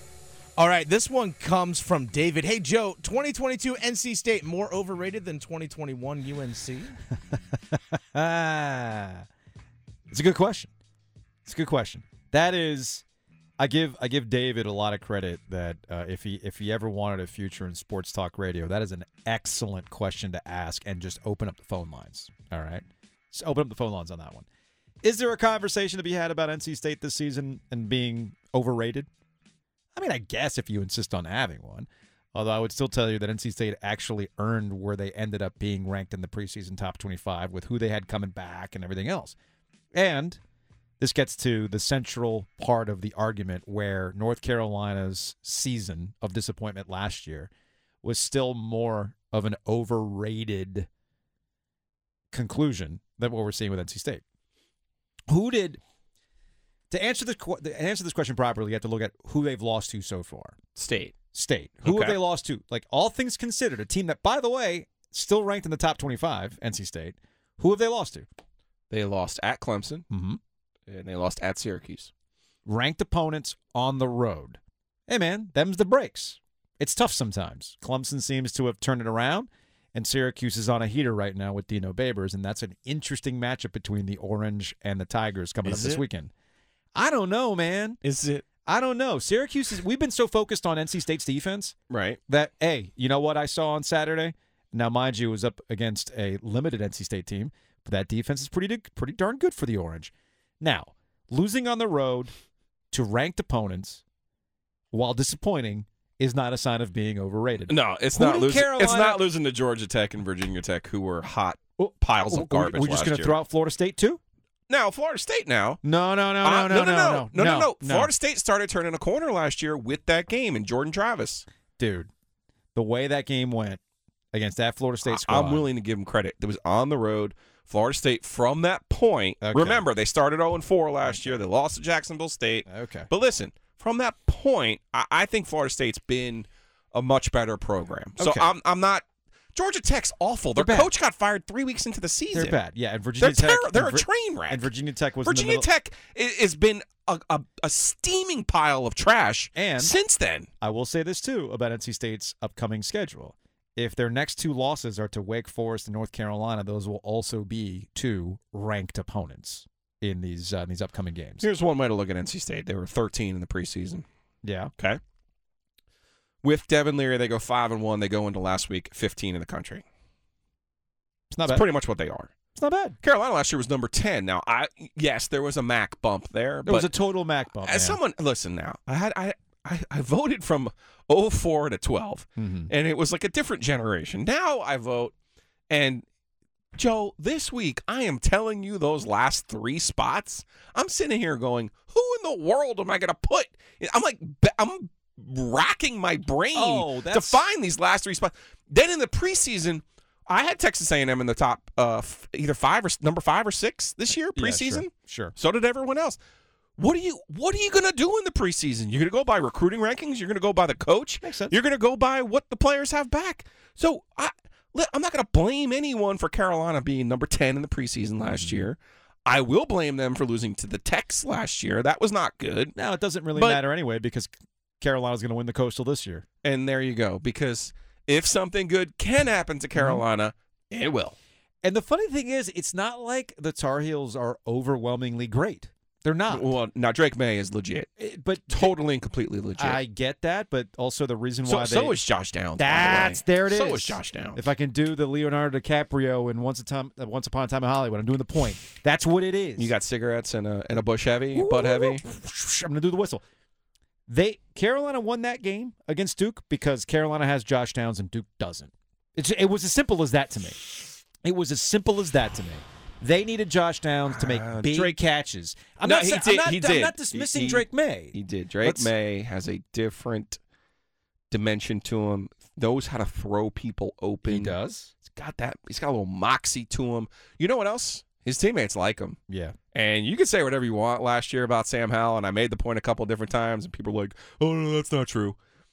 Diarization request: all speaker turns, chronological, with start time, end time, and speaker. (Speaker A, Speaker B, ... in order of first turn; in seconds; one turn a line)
Speaker A: 0.6-7.0
Speaker B: 7.3-9.3
Speaker B: 10.1-10.7
Speaker B: 11.4-13.0
Speaker B: 13.6-24.5
Speaker B: 25.0-29.1
Speaker B: 29.9-39.4
Speaker B: 39.9-40.4
Speaker B: 41.0-47.5
Speaker B: 48.0-50.9
Speaker B: 52.3-54.2
Speaker B: 55.3-55.8
Speaker B: 56.9-60.6
Speaker C: 60.8-61.1
Speaker B: 61.3-68.3
Speaker C: 61.9-62.2
Speaker C: 68.9-70.0
Speaker B: 70.1-70.4
Speaker C: 70.9-72.1
Speaker B: 72.7-86.3
Speaker C: 85.6-86.0
Speaker B: 87.0-88.0
Speaker C: 88.0-88.5
Speaker B: 88.7-91.8
Speaker C: 91.9-92.2
Speaker B: 92.3-102.3
Speaker B: 102.9-104.0
Speaker B: 104.9-109.2
Speaker C: 107.7-113.4
Speaker B: 111.8-114.2
Speaker C: 114.7-115.8
Speaker B: 115.8-118.1
Speaker C: 116.4-121.5
Speaker B: 121.8-122.1
Speaker B: 122.8-123.8
Speaker B: 124.3-125.7
Speaker C: 125.1-142.6
Speaker B: 129.4-129.9
Speaker B: 131.1-131.4
Speaker B: 132.7-133.1
Speaker B: 138.2-138.5
Speaker B: 140.6-140.9
Speaker B: 142.3-145.7
Speaker C: 143.2-144.7
Speaker C: 145.2-150.5
Speaker B: 149.6-149.9
Speaker B: 150.6-161.5
Speaker C: 161.4-164.1
Speaker B: 164.4-164.7
Speaker C: 166.4-169.8
Speaker B: 171.3-171.6
Speaker C: 171.5-172.3
Speaker B: 172.6-173.0
Speaker C: 173.0-176.9
Speaker B: 176.7-178.0
Speaker C: 177.6-185.1
Speaker B: 182.4-182.7
Speaker C: 185.7-186.0
Speaker C: 186.8-206.2
Speaker B: 196.5-197.4
Speaker B: 204.4-205.3
Speaker C: 206.8-222.7
Speaker B: 211.2-211.6
Speaker B: 218.2-218.7
Speaker B: 222.8-226.3
Speaker C: 223.3-223.6
Speaker C: 226.4-231.2
Speaker B: 229.8-230.0
Speaker B: 231.6-236.5
Speaker C: 236.3-237.9
Speaker B: 238.0-238.8
Speaker C: 238.5-239.8
Speaker B: 239.6-242.0
Speaker C: 241.5-244.4
Speaker B: 242.6-249.7
Speaker C: 249.6-252.0
Speaker B: 251.3-253.2
Speaker B: 254.1-260.7
Speaker B: 261.2-268.9
Speaker C: 264.1-265.0
Speaker C: 265.8-270.4
Speaker C: 271.3-279.2
Speaker B: 274.2-274.9
Speaker B: 279.3-279.6
Speaker C: 279.7-285.4